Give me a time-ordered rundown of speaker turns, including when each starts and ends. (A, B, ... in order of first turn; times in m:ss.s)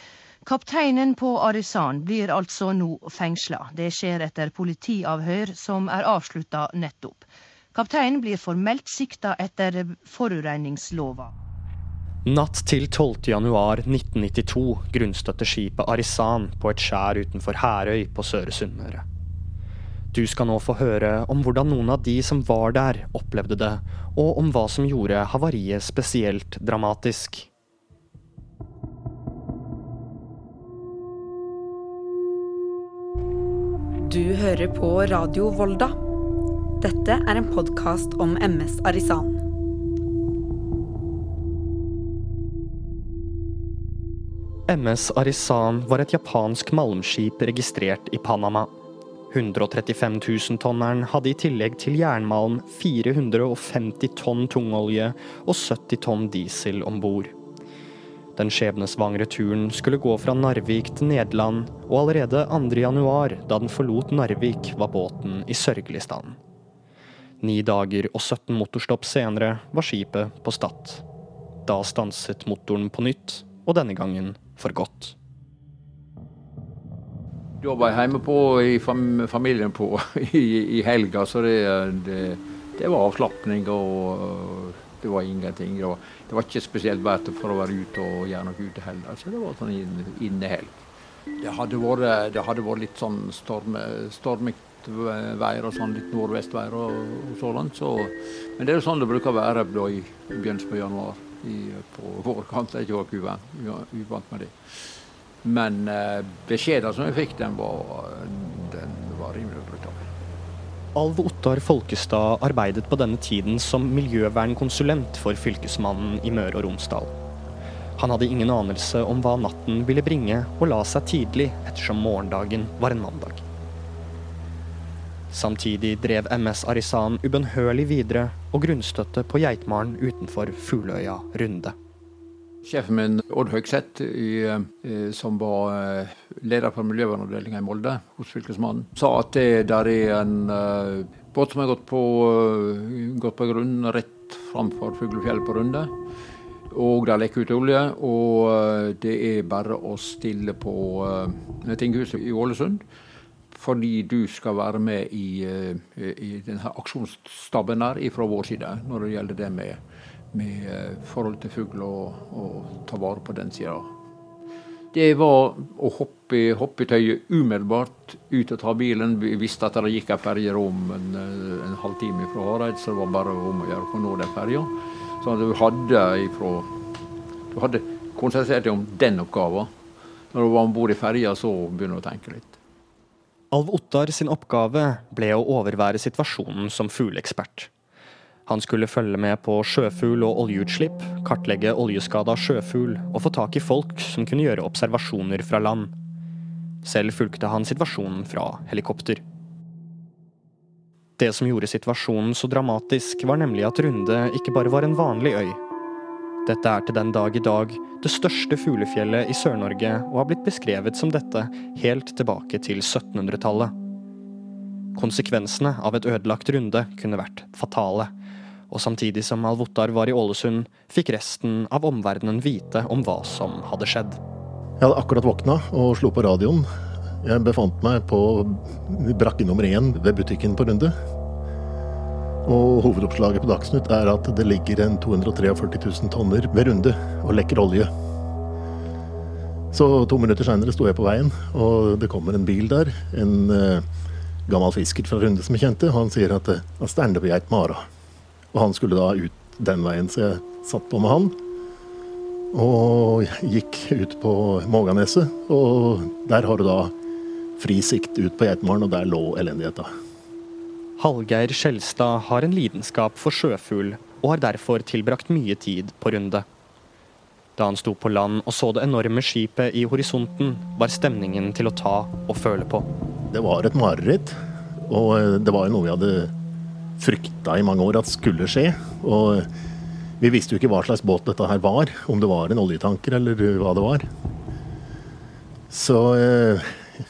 0:00.4-0:11.3 A
0:12.3-0:19.0 B
0:20.1-0:27.5 B
0:34.0-0:36.0 C
0:36.8-0:39.4 C
0:44.7-0:48.7 B
0:49.3-0:57.4 B
0:58.4-1:06.4 B
1:07.4-1:11.0 B
1:11.7-1:15.2 B
1:17.6-1:30.8 D
1:31.4-1:50.0 D
1:51.0-1:57.1 B
1:58.0-2:03.4 B
2:05.3-2:11.8 B
2:12.6-2:25.9 D
2:26.7-2:32.8 D
2:33.5-2:39.8 D
2:40.3-2:43.9 D
2:44.9-2:54.7 D
2:55.2-2:56.7 D
2:57.5-2:59.7 D
3:00.3-3:02.6 D
3:03.5-3:07.7 B
3:08.5-3:15.9 B
3:16.8-3:19.2 B
3:21.2-3:25.6 B
3:26.4-3:33.8 B
3:35.0-3:38.1 B
3:38.7-3:44.2 B
3:44.8-3:46.7 E
3:47.2-3:50.9 E
3:52.4-3:57.9 E
3:59.7-4:03.9 E
4:04.5-4:07.9 E
4:08.5-4:11.3 E
4:12.5-4:16.9 E
4:17.6-4:19.9 E
4:21.0-4:26.4 B
4:27.6-4:32.9 B
4:33.3-4:36.3 E
4:37.0-4:39.5 E
4:40.2-4:44.1 E
4:45.7-4:46.8 E